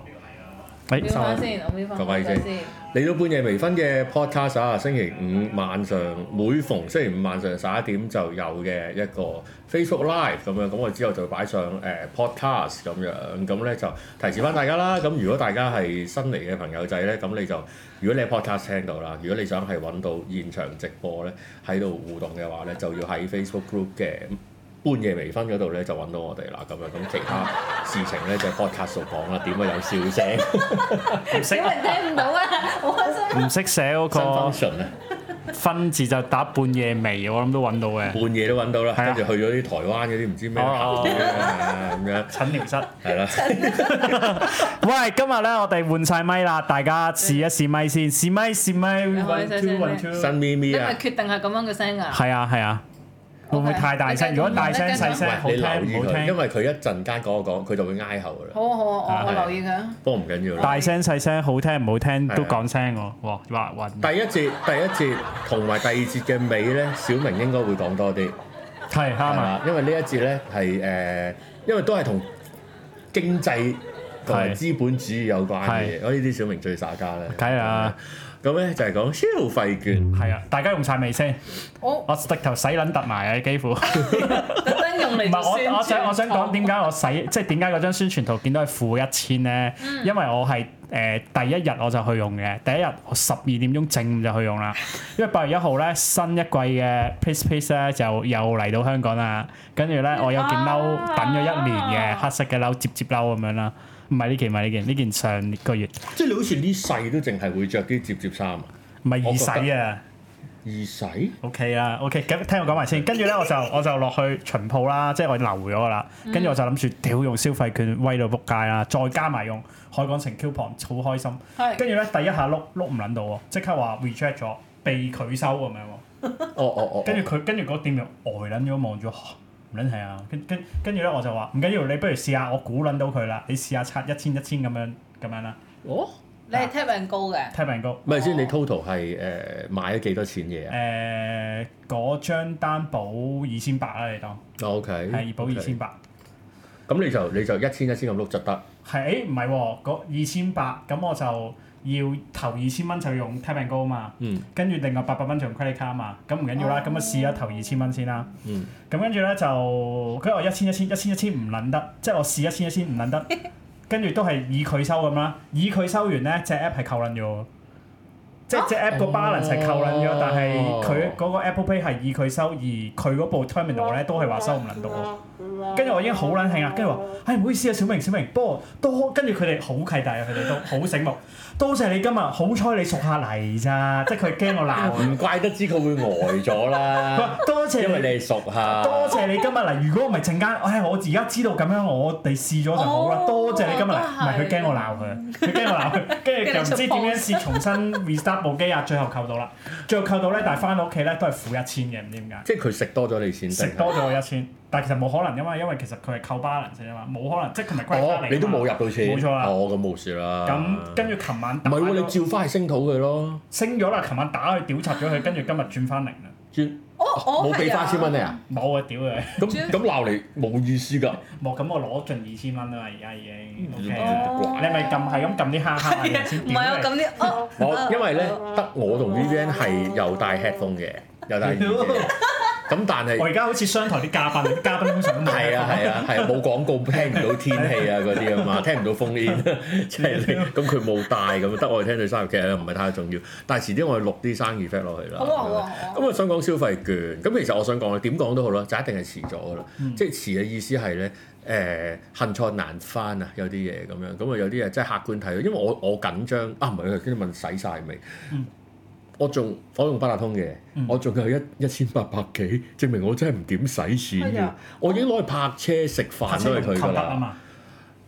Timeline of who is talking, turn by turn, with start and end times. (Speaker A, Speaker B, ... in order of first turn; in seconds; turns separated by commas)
Speaker A: 0.9-1.5, Speaker B: 1.0-2.7, Speaker C: 1.9-31.4, Speaker B: 31.2-33.6, Speaker A: 31.2-32.0, Speaker A: 33.3-34.6, Speaker C: 34.1-34.9, Speaker A: 35.5-38.2, Speaker C: 38.1-44.6, Speaker A: 39.0-39.3, Speaker A: 40.5-41.6, Speaker A: 42.3-43.0, Speaker B: 43.3-44.1, Speaker A: 43.7-50.3, Speaker B: 49.1-52.2, Speaker C: 50.1-51.0, Speaker A: 52.1-52.8, Speaker B: 53.5-55.4, Speaker A: 53.5-56.4, Speaker C: 54.5-58.6, Speaker B: 58.5-60.0, Speaker A: 59.1-59.4, Speaker C: 59.1-60.8, Speaker B: 60.6-61.0, Speaker A: 60.6-64.1, Speaker C: 62.3-62.6, Speaker C: 64.0-68.4, Speaker A: 68.9-69.6, Speaker C: 69.2-72.3, Speaker C: 73.1-80.1, Speaker A: 74.3-74.6, Speaker A: 75.6-75.9, Speaker A: 77.3-78.0, Speaker A: 80.1-81.4, Speaker B: 81.8-82.1, Speaker A: 82.1-106.1, Speaker B: 84.0-86.7, Speaker B: 89.8-90.1, Speaker B: 100.2-102.2, Speaker C: 106.1-108.7, Speaker A: 109.0-110.0, Speaker C: 109.2-109.7, Speaker C: 110.6-111.4, Speaker A: 111.4-126.0, Speaker C: 112.8-113.0, Speaker B: 116.3-116.6, Speaker B: 121.6-121.8, Speaker C: 126.5-127.3, Speaker A: 127.0-135.6, Speaker C: 135.8-136.1, Speaker B: 136.5-137.5, Speaker A: 137.5-138.1, Speaker C: 138.0-140.8, Speaker B: 138.1-138.5, Speaker A: 140.7-144.4, Speaker C: 144.6-145.8, Speaker A: 145.1-146.0, Speaker C: 146.9-148.6, Speaker A: 148.8-158.3, Speaker C: 154.2-154.4, Speaker B: 156.7-157.5, Speaker C: 158.4-158.7, Speaker A: 158.9-163.4, Speaker A: 163.9-167.5, Speaker A: 168.5-175.1, Speaker C: 168.9-171.2, Speaker A: 175.7-185.2, Speaker C: 184.7-189.3, Speaker A: 187.1-202.5, Speaker B: 192.8-197.8, Speaker C: 202.4-204.0, Speaker A: 203.5-209.6, Speaker B: 203.9-204.2, Speaker C: 207.8-213.4, Speaker A: 210.4-212.2, Speaker A: 213.5-216.3, Speaker C: 216.5-218.4, Speaker B: 217.0-218.3, Speaker A: 218.5-219.7, Speaker C: 219.4-221.3, Speaker A: 221.4-227.0, Speaker C: 223.6-224.9, Speaker B: 223.9-228.4, Speaker C: 227.5-233.3, Speaker A: 231.4-232.2, Speaker B: 232.1-232.6, Speaker A: 233.2-236.4, Speaker C: 235.2-258.3, Speaker A: 237.0-238.7, Speaker A: 240.0-240.7, Speaker B: 245.2-246.1, Speaker C: 259.2-267.3, Speaker B: 264.2-265.1, Speaker A: 266.2-267.4